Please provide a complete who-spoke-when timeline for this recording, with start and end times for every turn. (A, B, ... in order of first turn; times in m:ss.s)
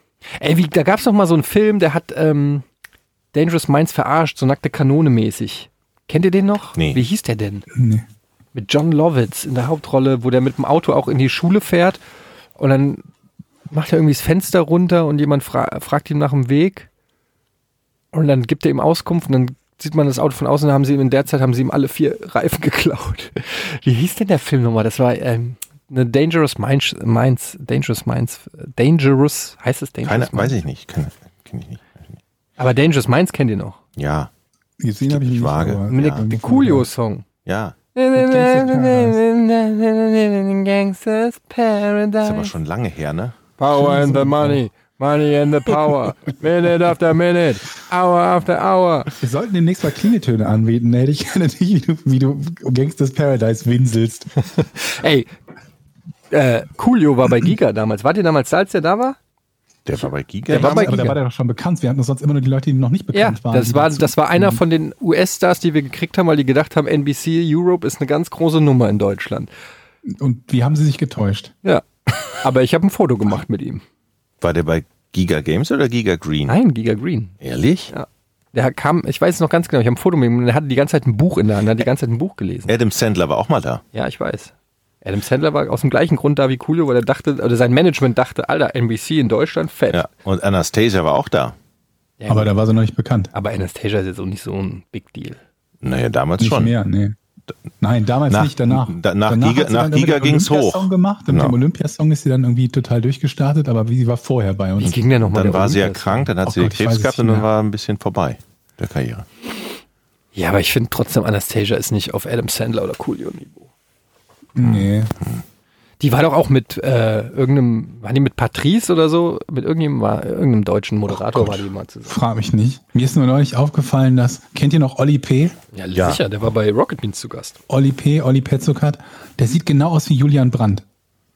0:00.4-0:02.6 A
0:03.3-0:07.7 A
0:06.8-0:07.0 B
0:07.7-0:08.0 C
0:08.6-0:12.0 A
0:12.6-0:13.0 A
0:13.7-0:16.9 A
0:18.1-0:30.6 A
0:30.0-0:32.0 B
0:32.6-0:33.8 A
0:34.0-0:34.3 B
0:34.8-0:36.9 C
0:35.1-0:36.2 B
0:35.9-0:37.2 A
0:37.5-0:37.8 B
0:38.0-0:42.5 A
0:38.1-0:39.2 C
0:42.2-0:43.4 B
0:43.6-0:49.1 A
0:43.7-0:44.6 C
0:49.2-0:54.3 C
0:54.6-0:55.3 A
0:56.3-0:59.2 A
0:59.9-1:01.0 B
1:00.5-1:01.2 A
1:00.5-1:04.6 C
1:03.1-1:09.5 A
1:10.1-1:11.5 C
1:11.6-1:13.8 A
1:14.4-1:16.6 B
1:16.5-1:17.4 A
1:17.4-1:17.9 B
1:17.9-1:22.7 A
1:22.7-1:23.8 B
1:23.9-1:24.5 A
1:25.0-1:30.0 A
1:29.9-1:31.6 B
1:32.2-1:32.5 A
1:32.3-1:33.3 C
1:33.3-1:35.4 A
1:35.8-1:36.7 B
1:36.4-1:37.2 C
1:37.8-1:45.0 C
1:38.3-1:41.6 B
1:44.8-1:46.3 A
1:45.3-1:49.3 B
1:46.4-1:47.5 C
1:50.4-1:53.7 A
1:54.6-1:55.1 C
1:54.6-1:55.4 B
1:56.0-2:02.2 A
2:01.1-2:05.6 C
2:05.7-2:07.6 A
2:06.0-2:06.2 B
2:07.7-2:10.8 C